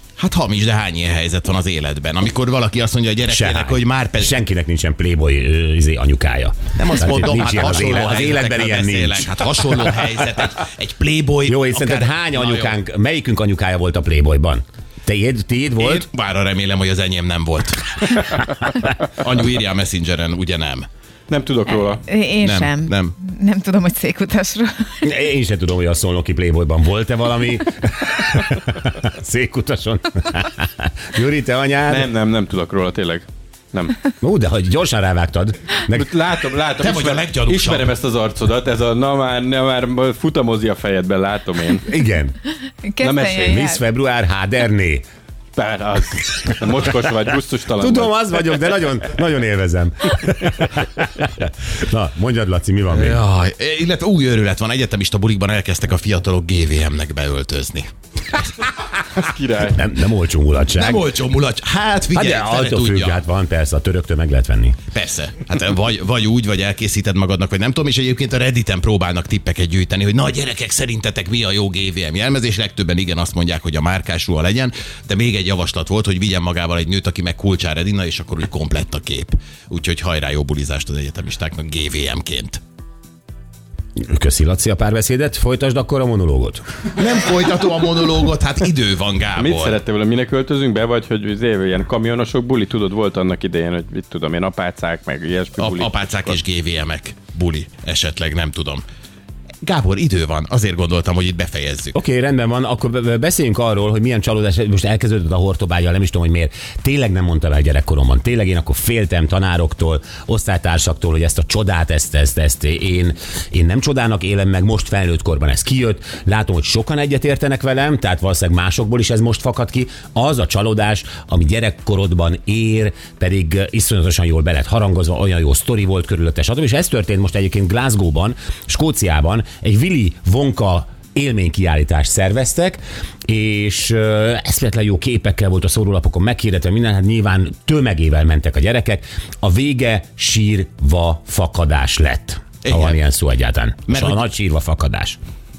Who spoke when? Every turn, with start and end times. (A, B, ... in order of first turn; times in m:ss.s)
0:00.2-0:04.3 A
0:03.2-0:10.1 B
0:06.7-0:12.8 A
0:11.4-0:16.1 B
0:15.8-0:20.9 A
0:21.3-0:22.0 C
0:22.1-0:25.0 D
0:22.4-0:23.1 A
0:25.0-0:32.1 B
0:31.8-0:34.0 C
0:34.2-0:36.1 B
0:35.9-0:41.9 C
0:36.8-0:37.9 A
0:41.8-0:42.4 B
0:42.7-0:43.8 D
0:43.0-0:43.6 C
0:43.3-0:45.0 B
0:45.5-0:48.6 C
0:47.8-0:53.2 B
0:52.9-0:58.7 A
0:59.1-0:59.8 C
0:59.7-1:01.0 B
1:00.7-1:03.2 A
1:02.1-1:04.8 B
1:04.9-1:22.6 A
1:24.0-1:26.6 B
1:27.0-1:29.8 A
1:29.4-1:36.4 C
1:35.6-1:38.8 A
1:39.6-1:41.9 A
1:41.9-2:25.2 B
2:22.6-2:23.0 A
2:23.9-2:24.2 A